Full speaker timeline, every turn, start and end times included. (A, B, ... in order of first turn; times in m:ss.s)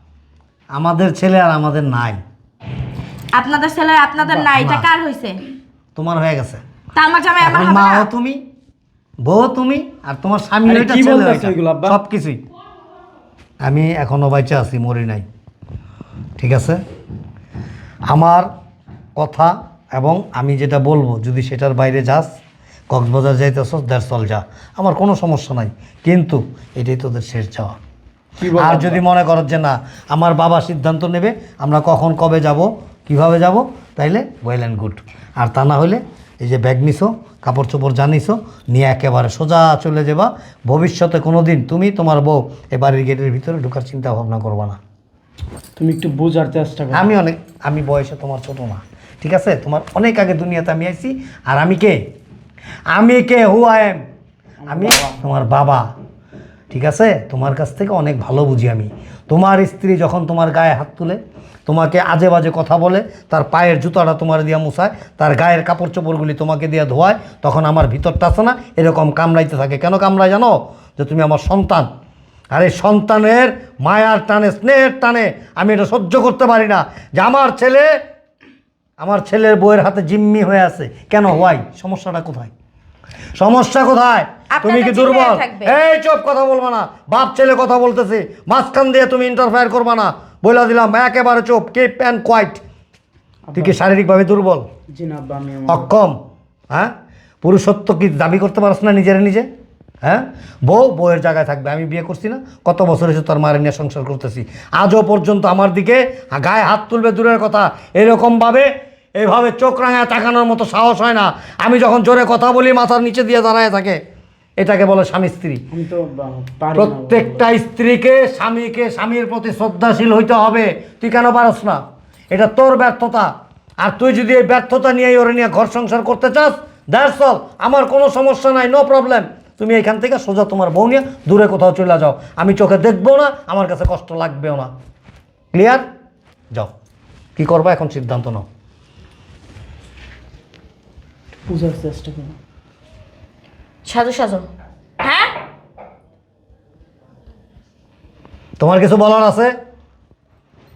0:00.7-0:02.2 A
0:03.3-0:05.4 B
0:04.3-0:04.9 A
0:06.0-0:06.6 A
0:07.0-0:08.1 B
0:07.4-0:08.4 A
0:09.2-0:12.4 A
0:10.7-0:12.0 C
0:13.6-0:15.3 A
0:16.4-0:16.8 A
0:18.1-0:18.5 A
0:19.2-0:22.3 A
0:22.9-0:27.8 A
0:28.4-0:29.0 C
0:28.6-0:44.8 A
0:45.8-0:47.1 C
0:46.9-0:52.0 A
0:52.9-0:54.0 A
0:54.6-0:55.2 C
0:54.7-0:55.9 A
0:56.7-1:11.9 A
1:12.5-1:17.9 A
1:19.0-1:22.5 A
1:23.4-1:32.6 A
1:24.5-1:25.7 B
1:33.5-1:33.8 C
1:33.6-1:34.6 A
1:34.9-1:35.9 C
1:35.7-1:36.2 A
1:37.4-1:39.5 A
1:40.0-1:54.0 A
1:54.6-1:55.6 A
1:55.7-1:57.5 C
1:56.7-2:14.7 A
2:15.5-2:15.8 A
2:17.4-2:18.5 A
2:21.5-2:22.4 C
2:23.9-2:24.5 B
2:25.0-2:25.3 B
2:28.6-2:29.6 A